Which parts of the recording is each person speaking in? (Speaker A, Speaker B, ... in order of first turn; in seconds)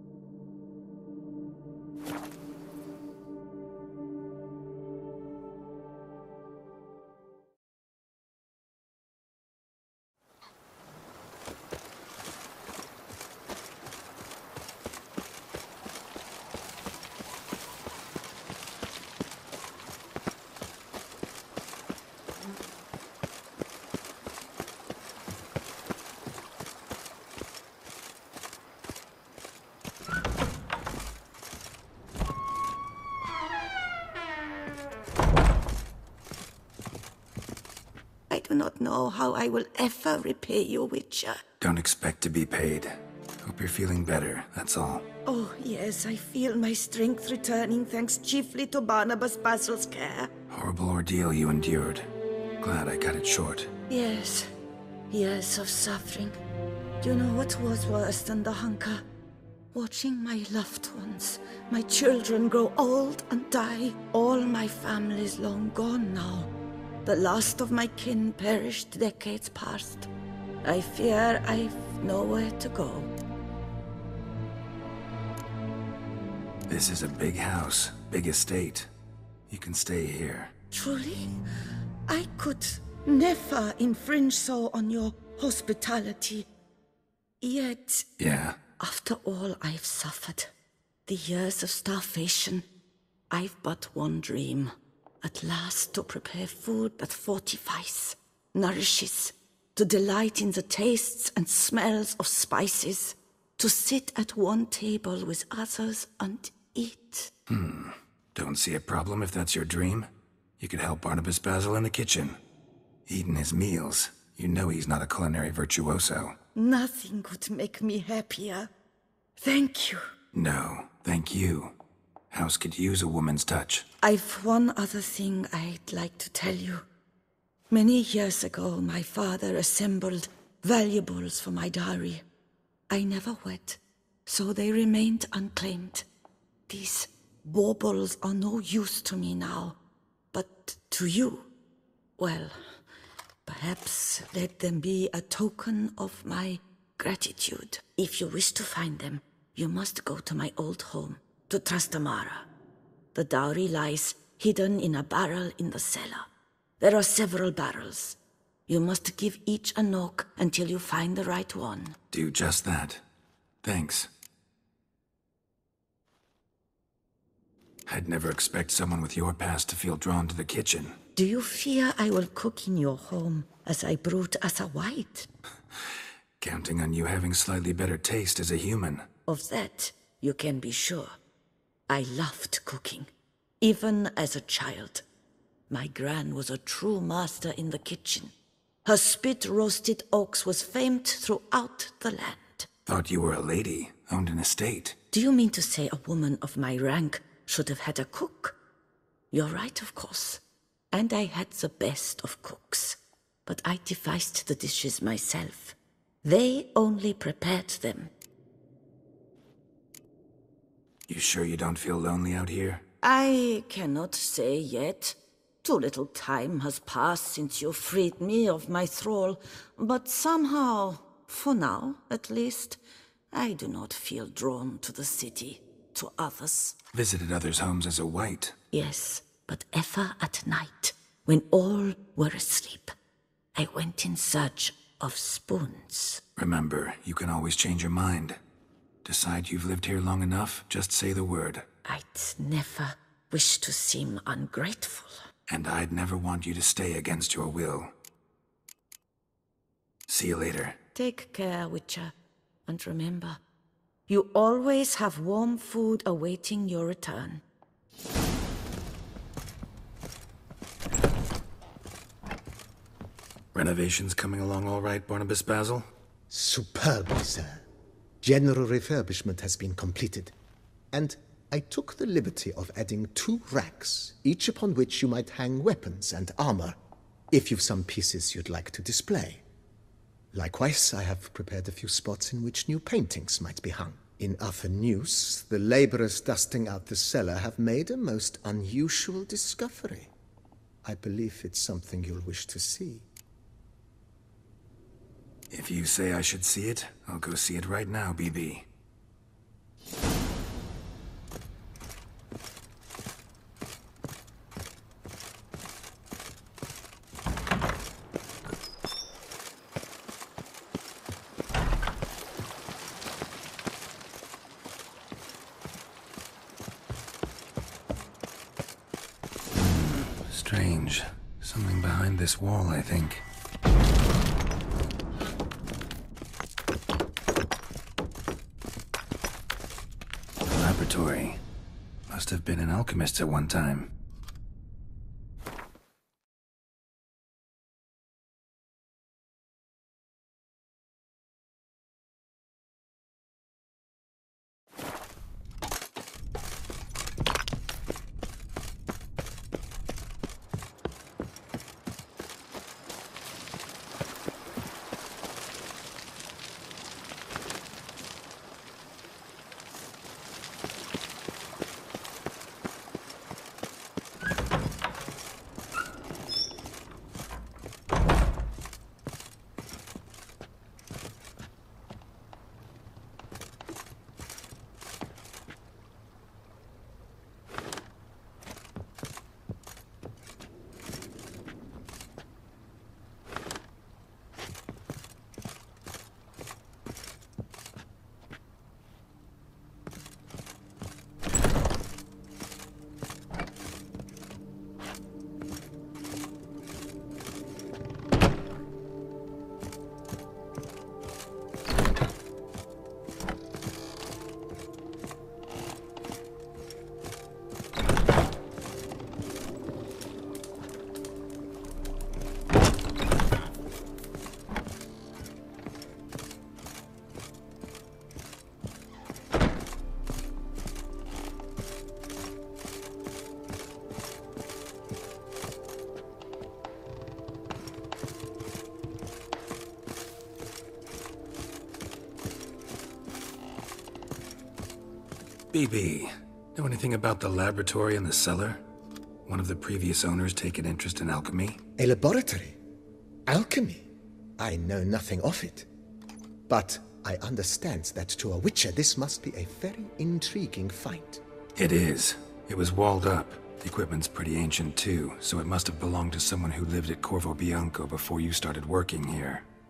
Speaker A: 38.3-41.4, 45.2-50.3, 53.9-54.5, 55.1-56.4, 57.0-59.0, 59.7-66.5, 67.0-70.1, 70.6-73.1, 80.7-81.3, 82.1-86.5, 87.4-88.1, 88.7-90.5, 91.0-92.7, 93.3-107.3, 116.5-118.7, 119.4-120.0, 124.0-126.8, 127.7-132.2, 132.9-136.1, 136.7-139.8, 140.3-141.5, 142.2-142.6, 143.4-152.5, 153.1-156.3, 156.8-162.0, 171.1-175.3, 179.3-181.2, 181.9-183.1, 183.6-185.0, 185.7-188.3, 188.8-192.7, 195.1-198.6, 199.3-208.1, 213.0-222.8, 223.3-226.8, 228.7-232.9, 233.5-236.2, 241.8-245.2, 250.9-252.1, 252.7-253.4, 254.1-257.4
Speaker B: 41.6-45.1, 50.5-53.7, 76.7-78.9, 79.5-80.5, 88.2-88.6, 107.5-112.4, 113.1-116.4, 120.3-121.8, 122.3-123.9, 162.1-163.0, 163.6-164.1, 167.8-171.0, 175.7-179.1, 192.8-195.0, 211.1-212.8, 226.9-228.6, 236.3-238.4, 239.0-241.7, 245.5-247.9, 250.1-250.8, 263.5-265.9, 295.5-298.7, 319.5-323.2, 330.4-331.4, 332.1-333.9, 435.5-438.6, 439.2-441.6, 451.6-459.4
Speaker C: 266.3-267.6, 268.2-270.3, 270.9-276.8, 277.3-279.4, 280.3-290.1, 290.8-293.1, 441.8-442.6, 443.3-443.9, 444.4-445.7, 446.5-451.2